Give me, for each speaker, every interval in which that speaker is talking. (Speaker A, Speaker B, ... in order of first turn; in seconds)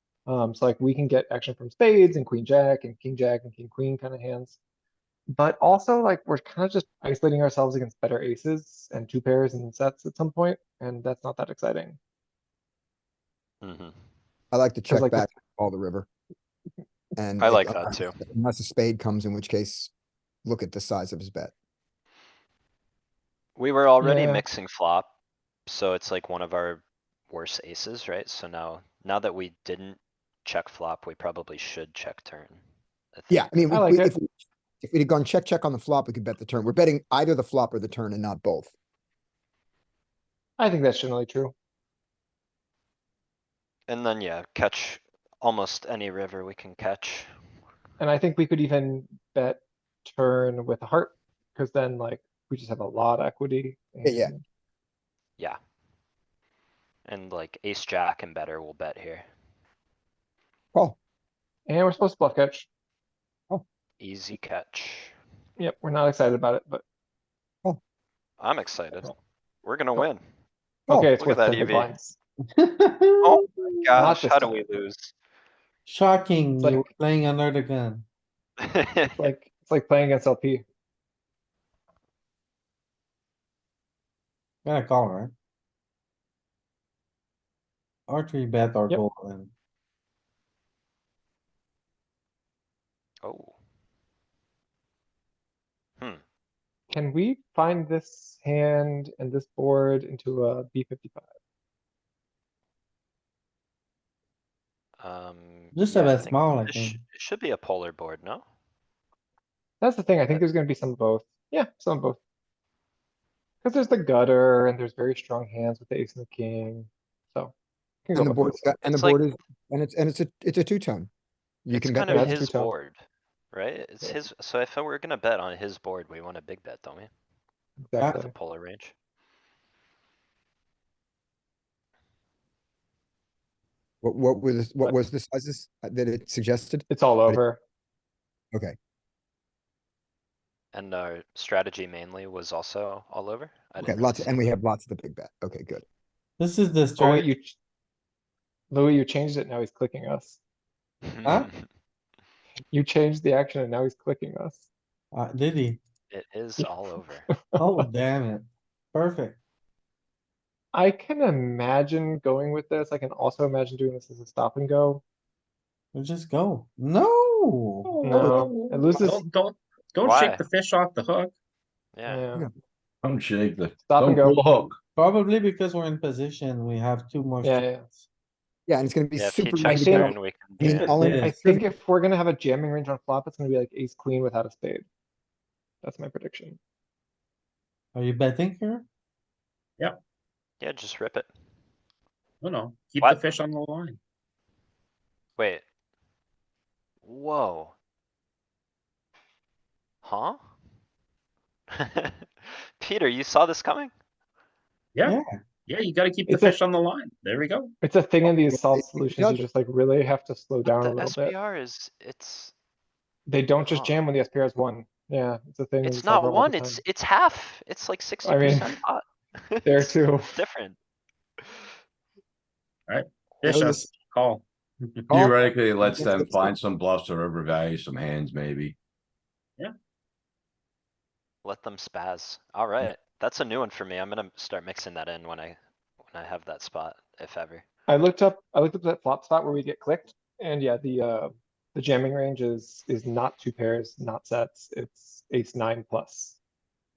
Speaker A: 0.2-4.6, 5.3-12.0, 14.9-15.3, 24.0-24.4, 33.7-34.1, 40.6-41.5, 48.0-54.4, 61.7-62.7, 65.6-66.8, 70.9-72.2, 74.0-74.6, 76.6-76.9, 79.1-80.6, 96.9-101.2, 109.8-112.2, 113.6-117.5, 118.0-118.6, 122.1-122.7, 127.8-128.3, 136.9-137.6, 146.9-147.6, 148.7-150.4, 152.7-154.7, 157.3-157.9, 160.7-165.0, 168.0-169.2, 172.1-172.5, 173.9-174.4, 177.4-177.8, 179.6-180.1, 181.1-184.8, 185.8-186.6, 206.3-206.6, 207.8-211.3, 213.3-216.8, 218.2-218.8, 219.6-220.3, 237.9-246.4
Speaker B: 13.6-13.9, 17.4-18.2, 23.6-25.1, 25.7-32.6, 33.1-33.5, 43.9-47.3, 57.0-59.3, 64.0-65.1, 68.4-69.1, 69.6-70.2, 71.2-71.9, 73.2-75.1, 78.6-79.2, 93.2-93.5, 105.0-108.4, 118.8-119.2, 121.7-123.0, 123.5-127.1, 128.0-128.9, 140.7-144.3, 151.1-151.6, 156.1-157.3, 170.0-170.4, 171.9-172.2, 179.2-180.9, 190.6-191.3, 195.4-195.6, 197.0-197.7, 200.0-200.4, 201.7-203.9, 210.6-212.5, 213.6-214.0, 215.8-220.8, 231.4-237.6
Speaker C: 14.5-16.1, 17.2-19.9, 20.4-21.5, 33.3-38.7, 54.0-54.3, 118.1-121.1, 121.7-122.4, 134.0-137.4, 143.8-145.8, 178.7-181.6, 208.2-209.4, 223.4-223.9, 225.1-226.6
Speaker D: 72.5-73.9, 75.8-78.0, 84.6-85.3, 88.1-89.5, 105.7-107.0, 146.4-147.3, 155.1-155.8, 157.5-159.3, 165.9-168.0, 174.9-178.1, 180.9-181.3, 187.9-188.8, 205.0-205.3
Speaker E: 167.9-171.3, 192.4-194.0, 204.9-207.7, 222.9-225.1
Speaker F: 173.0-174.8, 225.1-228.7